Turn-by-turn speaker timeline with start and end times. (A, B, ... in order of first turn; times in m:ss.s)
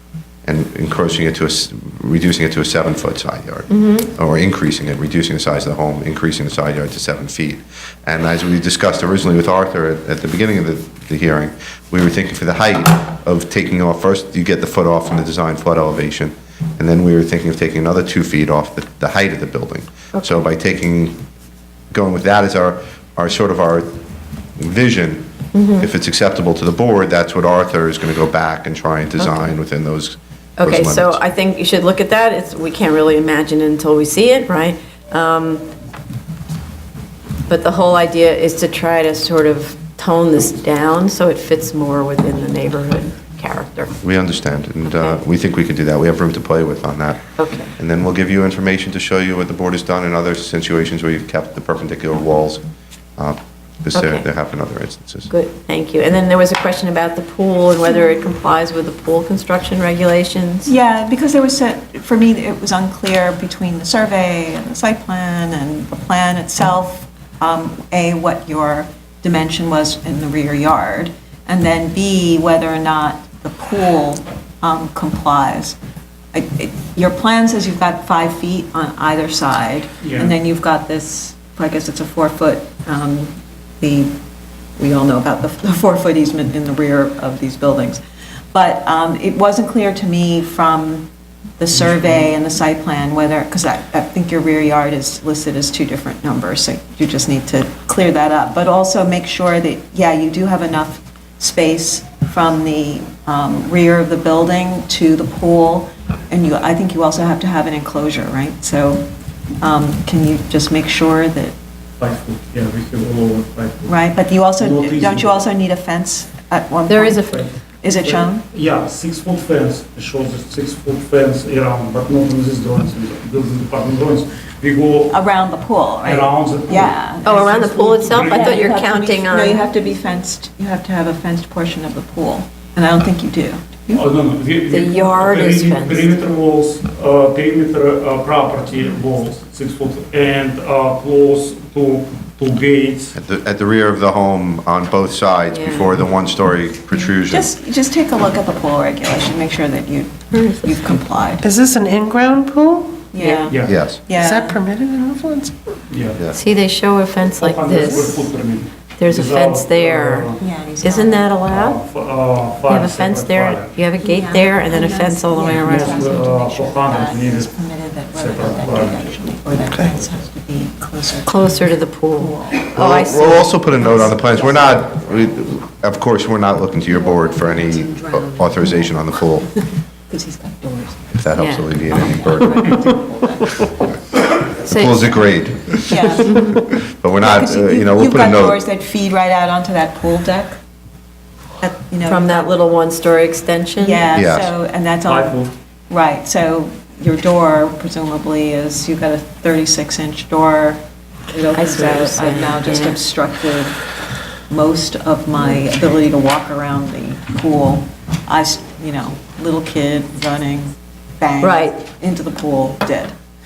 0:00.4-0:21.2 A
0:03.7-0:04.1 B
0:20.1-0:20.5 B
0:21.9-0:23.9 A
0:24.6-0:31.2 A
0:25.5-0:25.9 B
0:29.2-0:29.5 B
0:30.6-0:35.6 B
0:37.5-0:43.9 B
0:44.0-0:52.6 A
0:47.4-0:47.7 B
0:53.2-0:55.3 A
0:53.9-0:54.2 B
0:55.3-1:00.7 B
1:00.6-1:15.8 C
1:16.3-1:24.1 C
1:20.0-1:20.3 D
1:24.8-1:28.0 C
1:28.5-1:31.1 C
1:31.6-1:49.0 C
1:31.8-1:32.1 D
1:49.6-1:51.6 C
1:52.0-1:53.9 D
1:53.8-1:58.4 C
1:54.6-1:55.3 D
1:56.9-1:57.4 B
1:57.2-2:05.1 D
2:05.1-2:14.0 C
2:06.0-2:06.9 D
2:07.2-2:09.7 B
2:08.0-2:08.8 D
2:13.9-2:23.1 D
2:14.7-2:16.1 B
2:23.1-2:27.5 A
2:25.5-2:25.9 B
2:27.1-2:31.4 C
2:30.3-2:30.8 B
2:31.4-2:32.8 E
2:33.1-2:34.6 C
2:33.2-2:33.5 B
2:33.5-2:33.8 D
2:33.6-2:34.0 A
2:34.2-2:35.5 E
2:35.9-2:36.2 D
2:36.3-2:38.2 B
2:37.4-2:40.4 D
2:39.0-2:40.3 B
2:40.4-2:41.3 C
2:40.8-2:41.8 B
2:41.5-2:43.7 D
2:42.7-2:46.0 B
2:44.0-2:52.7 C
2:45.4-2:47.5 D
2:48.1-2:49.1 D
2:51.2-2:54.1 B
2:52.7-2:59.4 A
2:53.8-2:54.9 C
2:56.9-2:59.0 C
3:00.1-3:01.2 C
3:01.1-3:02.7 A
3:01.4-3:02.9 B
3:01.9-3:03.8 C
3:04.6-3:08.6 A
3:04.6-3:05.1 B
3:05.8-3:06.5 C
3:06.2-3:06.6 B
3:07.2-3:10.6 C
3:11.6-3:12.6 C
3:12.0-3:14.0 B
3:13.8-3:20.8 C
3:14.1-3:14.5 A
3:15.1-3:15.5 D
3:21.3-3:23.8 C
3:21.6-3:23.0 B
3:24.5-3:33.1 C
3:31.4-3:31.8 B